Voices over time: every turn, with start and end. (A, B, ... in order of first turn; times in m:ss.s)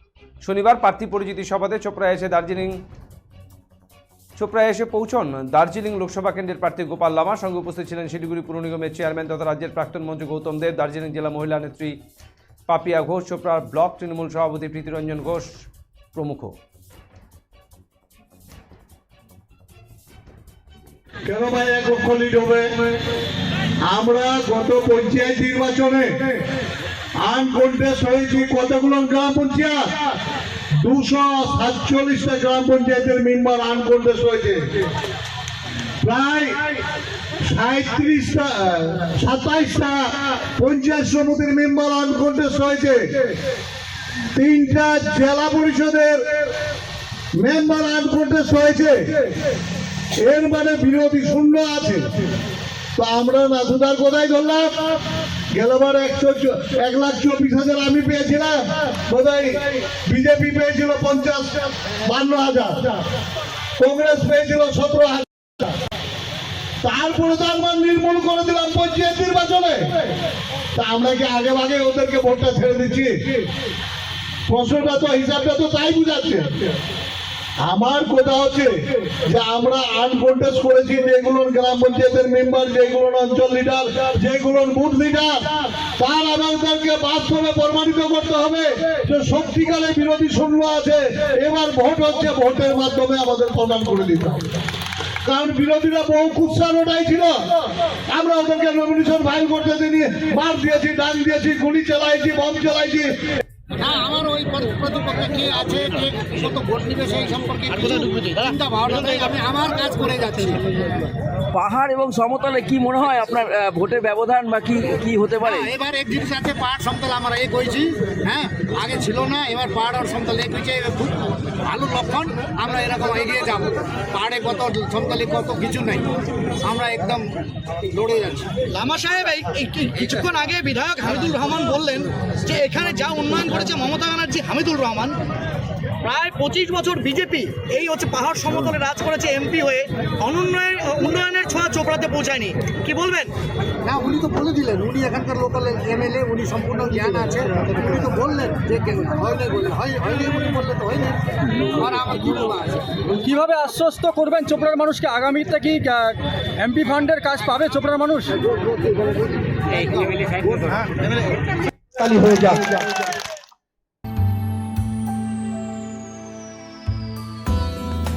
0:00.4-0:02.8 A
0:04.4-0:12.0 A
0:12.7-0:16.5 A
0:21.2-0:22.7 B
0:23.8-0:26.4 B
0:27.2-0:29.9 B
0:30.8-0:34.6 B
0:36.0-0:36.7 B
0:37.4-0:43.3 B
0:44.3-0:46.2 B
0:47.4-0:49.0 B
0:50.2-0:52.1 B
0:53.0-0:54.7 B
0:55.5-1:03.0 B
1:03.8-1:05.3 B
1:06.8-1:09.9 B
1:10.7-1:13.4 B
1:14.5-1:16.5 B
1:17.6-1:25.3 B
1:26.0-1:34.5 B
1:35.2-1:37.4 B
1:38.1-1:43.1 B
1:43.8-1:50.6 C
1:51.5-1:55.7 D
1:55.4-2:06.0 C
2:06.6-2:07.2 C
2:07.8-2:08.5 C
2:08.7-2:15.2 E
2:16.0-2:23.3 E
2:23.8-2:33.0 C
2:33.2-2:38.3 F
2:38.4-2:41.2 C
2:42.0-2:42.6 B